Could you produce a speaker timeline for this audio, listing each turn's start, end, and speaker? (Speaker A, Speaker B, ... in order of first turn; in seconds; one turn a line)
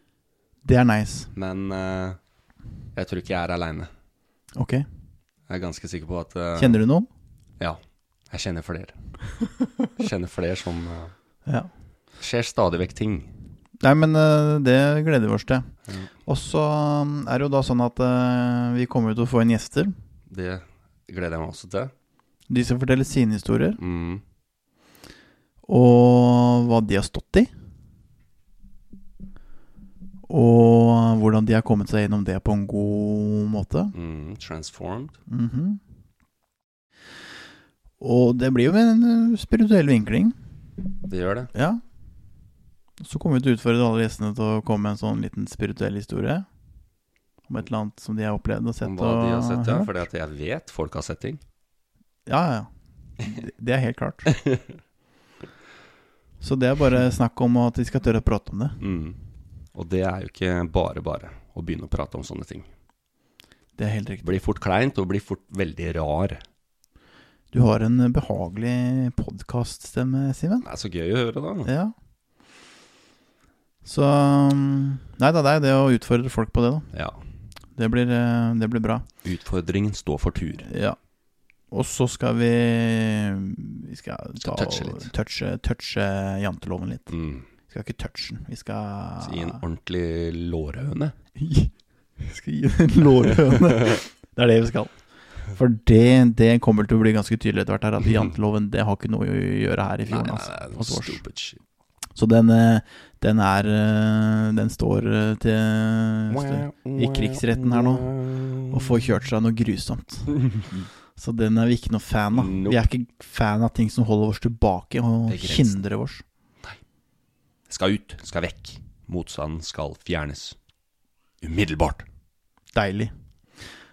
Speaker A: 0.6-1.3
Speaker B: 1.3-2.2
Speaker B: 3.0-3.9
Speaker A: 4.5-4.9
Speaker B: 5.5-6.8
Speaker A: 6.6-7.1
Speaker B: 8.3-9.0
Speaker B: 10.0-11.1
Speaker A: 11.5-11.7
Speaker B: 12.2-13.3
Speaker A: 13.8-15.7
Speaker A: 16.3-19.9
Speaker B: 20.3-21.9
Speaker A: 22.5-23.8
Speaker B: 23.8-24.2
Speaker A: 25.7-27.5
Speaker A: 30.3-33.9
Speaker B: 33.9-35.2
Speaker A: 35.3-35.8
Speaker A: 38.0-40.4
Speaker B: 41.1-41.5
Speaker A: 41.5-41.8
Speaker A: 43.0-46.5
Speaker A: 47.5-50.0
Speaker B: 48.8-51.4
Speaker A: 52.3-52.7
Speaker A: 53.2-54.3
Speaker B: 54.3-54.6
Speaker A: 56.4-58.8
Speaker B: 58.8-59.2
Speaker B: 59.8-62.7
Speaker A: 63.8-64.2
Speaker B: 64.2-66.4
Speaker A: 67.5-70.7
Speaker B: 70.6-71.7
Speaker A: 71.7-71.9
Speaker A: 73.8-76.9
Speaker B: 76.9-77.2
Speaker A: 77.8-79.1
Speaker B: 79.2-80.7
Speaker A: 80.7-81.0
Speaker A: 81.7-87.1
Speaker B: 84.4-85.1
Speaker B: 87.1-87.5
Speaker A: 87.7-89.6
Speaker B: 89.2-91.1
Speaker A: 91.3-94.9
Speaker B: 93.5-94.0
Speaker A: 95.5-101.2
Speaker B: 100.1-101.6
Speaker A: 102.2-108.1
Speaker B: 106.3-109.0
Speaker A: 108.7-110.4
Speaker B: 110.3-110.9
Speaker A: 111.2-116.2
Speaker B: 112.3-112.8
Speaker B: 115.3-115.8
Speaker B: 117.7-120.6
Speaker B: 121.4-122.0
Speaker A: 122.7-123.1